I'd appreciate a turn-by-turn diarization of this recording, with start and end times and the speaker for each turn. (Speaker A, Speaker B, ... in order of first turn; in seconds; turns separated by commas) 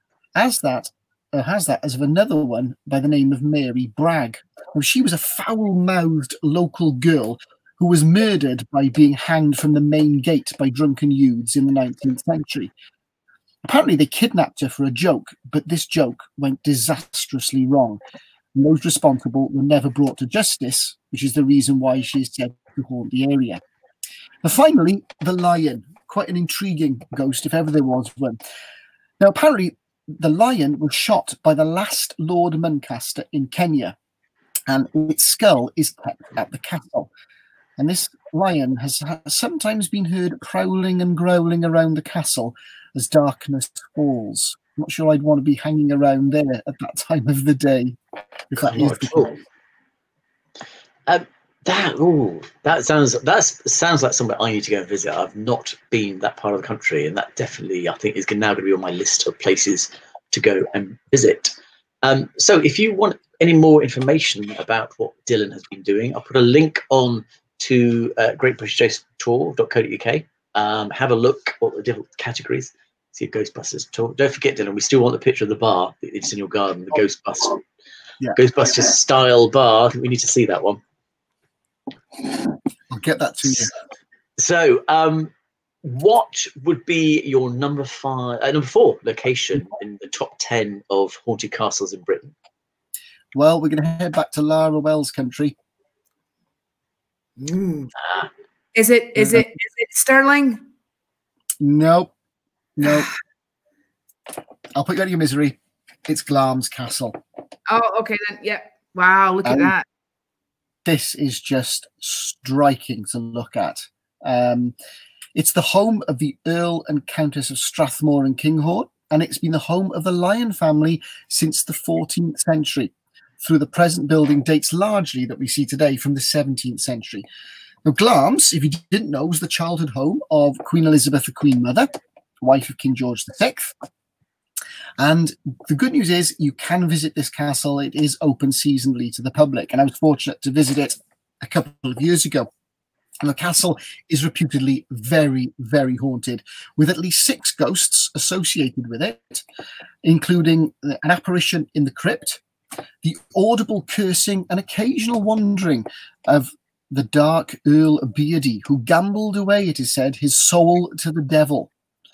Speaker A: 0.3-12.7, Speaker A: 13.6-18.0, Speaker A: 18.6-23.6, Speaker A: 24.4-28.4, Speaker A: 29.2-34.0, Speaker A: 34.7-37.1, Speaker A: 37.8-48.0, Speaker A: 48.5-49.3, Speaker B: 48.6-49.4, Speaker B: 51.1-77.6, Speaker B: 78.3-80.8, Speaker A: 82.9-83.7, Speaker B: 84.4-85.3, Speaker B: 85.8-92.3, Speaker A: 93.3-95.5, Speaker C: 97.5-97.9, Speaker B: 98.0-98.3, Speaker C: 98.7-100.6, Speaker A: 99.2-99.4, Speaker A: 101.6-102.1, Speaker A: 102.8-103.1, Speaker A: 104.8-107.2, Speaker C: 107.7-109.8, Speaker A: 109.4-109.7, Speaker A: 110.8-114.7, Speaker A: 115.3-127.2, Speaker A: 127.8-131.9, Speaker A: 132.4-133.7, Speaker A: 135.0-142.5, Speaker A: 143.2-149.4, Speaker A: 150.0-152.4, Speaker A: 153.0-161.7